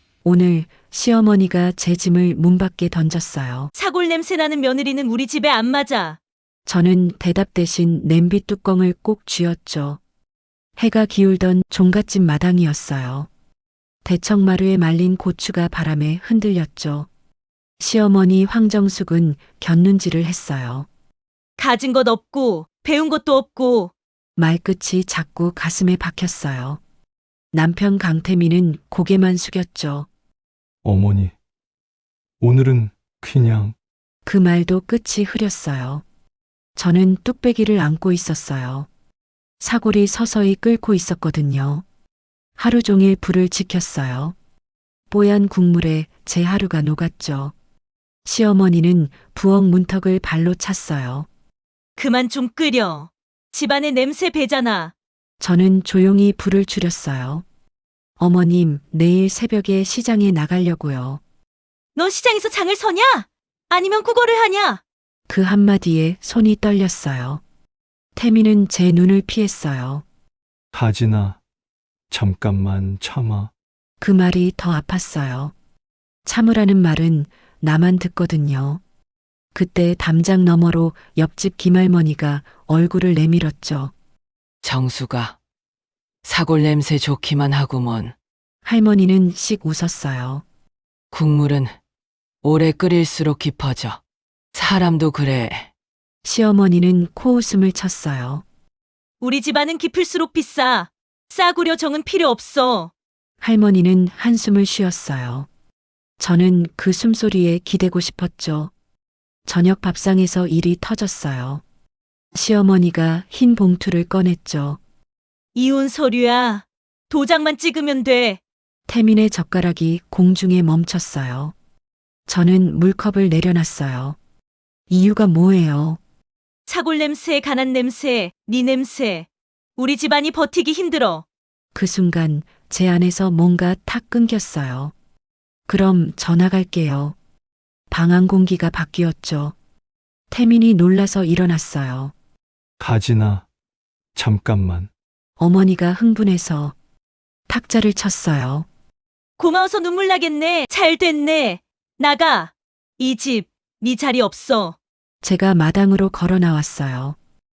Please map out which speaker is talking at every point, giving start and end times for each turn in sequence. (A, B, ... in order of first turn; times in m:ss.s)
0:00.2-0:03.7 A
0:03.7-0:06.2 B
0:06.6-0:10.0 A
0:10.8-0:13.3 A
0:14.0-0:17.1 A
0:17.8-0:20.9 A
0:21.6-0:23.9 B
0:24.4-0:26.8 A
0:27.5-0:30.1 A
0:30.8-0:31.3 C
0:32.4-0:33.8 C
0:34.2-0:36.0 A
0:36.8-0:38.9 A
0:39.6-0:41.8 A
0:42.6-0:44.4 A
0:45.1-0:47.5 A
0:48.2-0:51.3 A
0:52.0-0:54.9 B
0:55.4-0:57.4 A
0:58.2-1:01.2 A
1:02.0-1:04.8 B
1:05.3-1:07.4 A
1:08.1-1:10.0 A
1:10.7-1:11.4 C
1:12.1-1:13.5 C
1:14.0-1:15.5 A
1:16.2-1:18.8 A
1:19.5-1:23.9 A
1:24.6-1:25.4 D
1:26.2-1:28.1 D
1:28.6-1:30.4 A
1:31.1-1:31.8 D
1:32.4-1:34.0 D
1:34.5-1:35.7 D
1:36.2-1:38.4 A
1:39.2-1:42.9 B
1:43.4-1:45.5 A
1:46.2-1:48.7 A
1:49.4-1:51.6 A
1:52.3-1:54.8 A
1:55.5-1:58.4 B
1:58.9-2:01.5 A
2:02.3-2:04.2 A
2:04.9-2:06.0 A
2:06.7-2:11.2 B
2:11.7-2:14.9 A
2:15.7-2:17.2 A
2:17.9-2:19.5 A
2:20.3-2:22.1 A
2:22.8-2:23.5 C
2:24.1-2:24.9 C
2:25.4-2:26.8 A
2:27.5-2:28.7 A
2:29.4-2:34.8 B
2:35.2-2:37.2 A